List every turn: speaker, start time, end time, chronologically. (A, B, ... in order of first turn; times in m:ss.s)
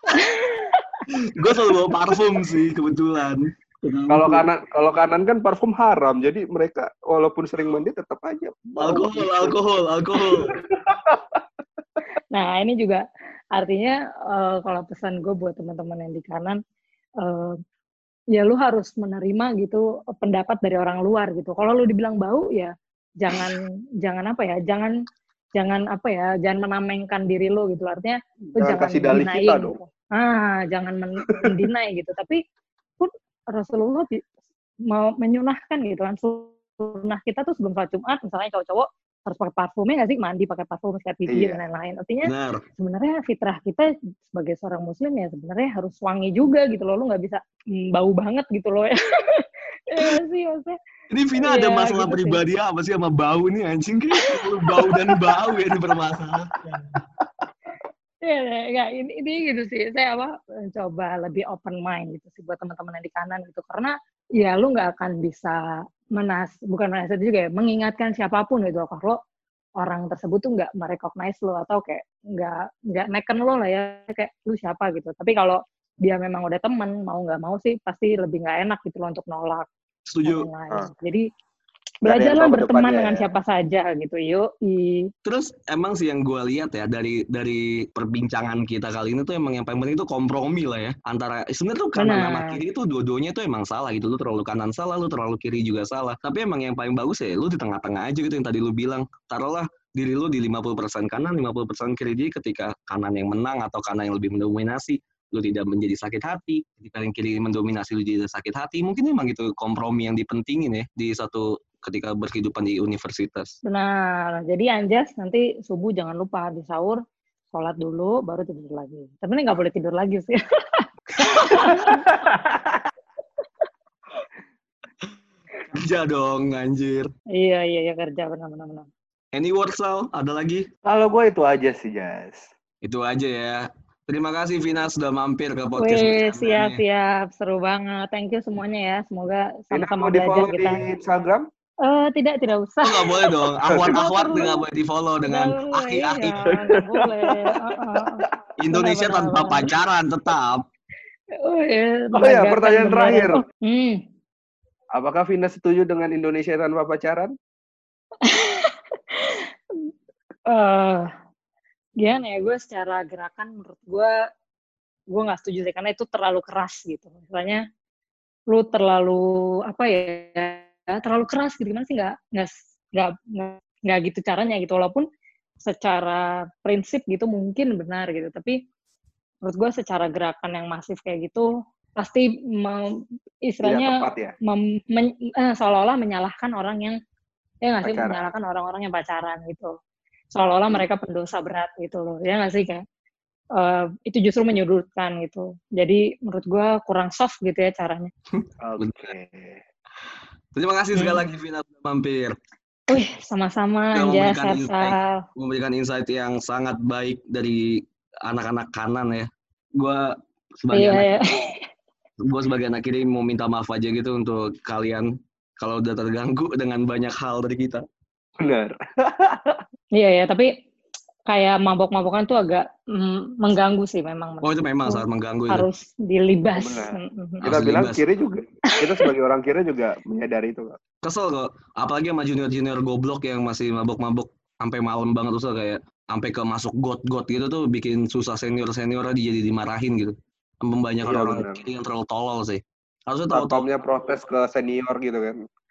0:00.1-0:01.0 A
0:01.1-0:04.4 B
0:04.1-0:09.5 C
0:08.8-0:10.5 B
0:10.7-0:11.4 C
0:12.3-0:16.6 A
0:17.2-0:17.6 A
0:18.3-0:24.9 A
0:25.6-0:32.4 A
0:28.6-0:29.8 C
0:33.0-0:34.2 A
0:34.9-0:50.8 A
0:41.3-0:41.6 C
0:42.2-0:42.6 B
0:51.1-0:57.0 B
0:51.4-0:52.4 A
0:54.3-0:55.1 A
0:58.2-1:05.6 A
1:06.1-1:09.2 A
1:09.8-1:19.6 A
1:20.1-1:20.5 B
1:20.2-1:21.2 A
1:22.0-1:23.3 C
1:22.0-1:25.0 A
1:25.2-1:53.5 B
1:32.0-1:32.6 A
1:53.6-1:57.0 A
1:57.5-2:02.1 A
2:01.3-2:01.7 B
2:01.7-2:02.8 C
2:05.7-2:07.1 B
2:07.4-2:08.9 A
2:09.3-2:10.6 B
2:10.8-2:12.5 C
2:12.8-2:16.8 B
2:15.8-2:20.8 A
2:19.7-2:21.4 C
2:21.8-2:23.3 A
2:22.8-2:26.4 B
2:23.7-2:24.0 C
2:23.9-2:24.6 A
2:25.2-2:29.7 A
2:26.4-2:27.4 C
2:28.6-2:30.6 B
2:31.4-2:34.0 A
2:32.1-2:33.4 C
2:34.9-2:37.3 C
2:38.2-2:39.5 A
2:40.5-2:41.1 A
2:42.0-2:44.1 A
2:45.1-2:47.6 A
2:48.5-2:55.0 A
2:55.6-2:58.6 A
2:59.4-3:01.5 A
3:02.0-3:02.8 A
3:03.5-3:07.0 A
3:03.6-3:04.3 C
3:07.6-3:09.7 A
3:07.8-3:08.3 C
3:10.3-3:12.8 A
3:13.5-3:18.1 A
3:18.3-3:19.1 B
3:18.6-3:19.6 C
3:20.5-3:22.3 B
3:20.9-3:21.2 A
3:22.9-3:25.2 A
3:23.9-3:30.1 B
3:30.6-3:31.1 B
3:30.7-3:31.5 A
3:32.2-3:35.1 B
3:35.6-3:37.8 B
3:38.4-3:39.6 C
3:40.0-3:40.5 A
3:41.3-3:47.4 A
3:44.4-3:45.7 B
3:46.5-3:50.8 C
3:47.4-3:48.0 B
3:51.0-4:03.7 B
4:01.0-4:01.6 C
4:03.3-4:05.4 C